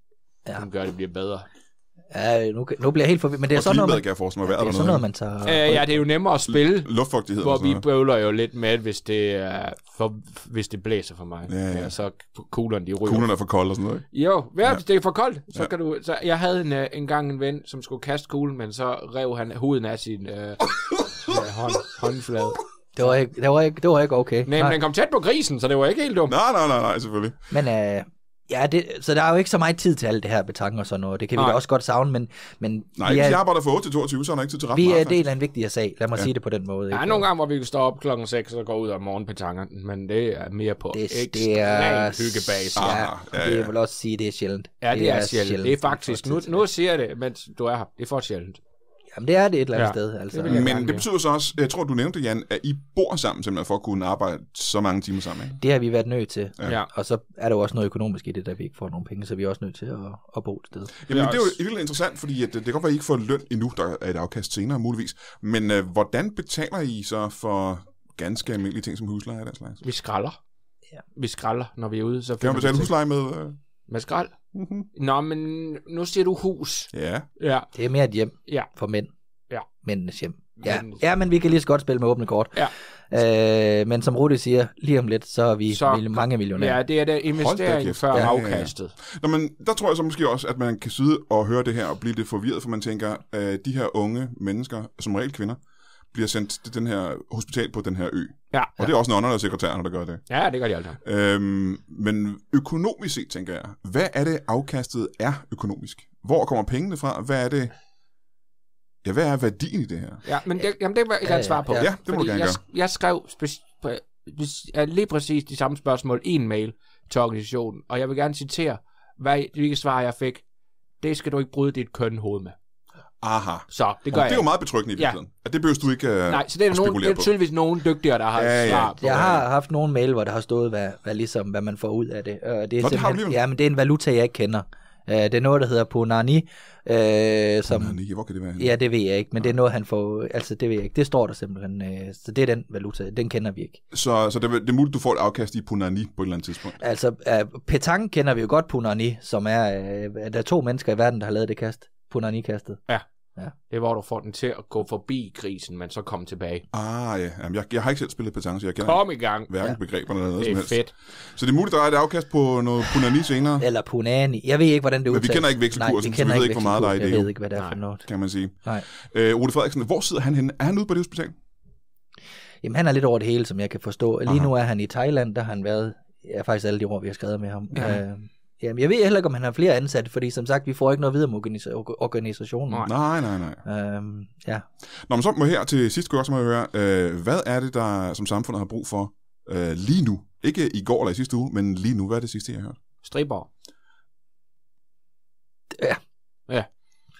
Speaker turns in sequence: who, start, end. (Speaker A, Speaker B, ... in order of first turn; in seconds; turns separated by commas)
Speaker A: 0.5-1.5, Speaker B: 2.1-6.0, Speaker C: 3.5-5.1, Speaker A: 5.4-13.5, Speaker C: 6.5-7.8, Speaker C: 11.5-11.9, Speaker C: 13.0-14.0, Speaker A: 14.1-23.1, Speaker B: 22.9-24.8, Speaker A: 24.4-26.3, Speaker C: 26.3-27.4, Speaker B: 27.5-33.4, Speaker A: 31.4-31.6, Speaker C: 33.0-35.2, Speaker B: 34.7-37.2, Speaker A: 36.9-43.0, Speaker B: 40.9-46.6, Speaker C: 42.8-43.7, Speaker A: 44.8-48.6, Speaker B: 49.1-50.9, Speaker A: 49.7-51.0, Speaker C: 50.5-55.6, Speaker B: 55.6-61.0, Speaker C: 61.1-69.8, Speaker A: 61.1-61.5, Speaker A: 69.8-70.4, Speaker A: 71.1-72.9, Speaker C: 72.4-73.6, Speaker A: 73.9-74.3, Speaker C: 74.5-74.9, Speaker A: 74.9-77.7, Speaker C: 76.9-77.3, Speaker B: 77.7-79.1, Speaker B: 79.8-86.8, Speaker A: 80.6-81.0, Speaker A: 85.7-88.9, Speaker C: 87.3-95.6, Speaker C: 96.1-100.4, Speaker A: 98.5-98.9, Speaker A: 100.3-101.0, Speaker C: 101.0-107.7, Speaker C: 109.0-110.2, Speaker A: 110.2-120.4, Speaker B: 111.2-111.9, Speaker C: 111.7-112.6, Speaker A: 121.0-122.5, Speaker C: 123.2-127.3, Speaker A: 123.7-125.2, Speaker A: 126.3-129.4, Speaker C: 128.3-129.4, Speaker B: 129.0-138.0, Speaker C: 132.8-133.4, Speaker C: 137.7-138.8, Speaker B: 138.6-143.8, Speaker C: 143.9-146.8, Speaker B: 146.8-153.5, Speaker A: 153.7-156.7, Speaker C: 156.7-163.6, Speaker A: 158.8-159.5, Speaker A: 160.4-160.9, Speaker B: 163.6-168.1, Speaker C: 165.1-167.3, Speaker A: 167.5-167.8, Speaker C: 168.0-171.4, Speaker B: 172.6-182.9, Speaker C: 182.8-183.6, Speaker B: 183.6-184.6, Speaker C: 185.1-192.8, Speaker A: 193.0-193.5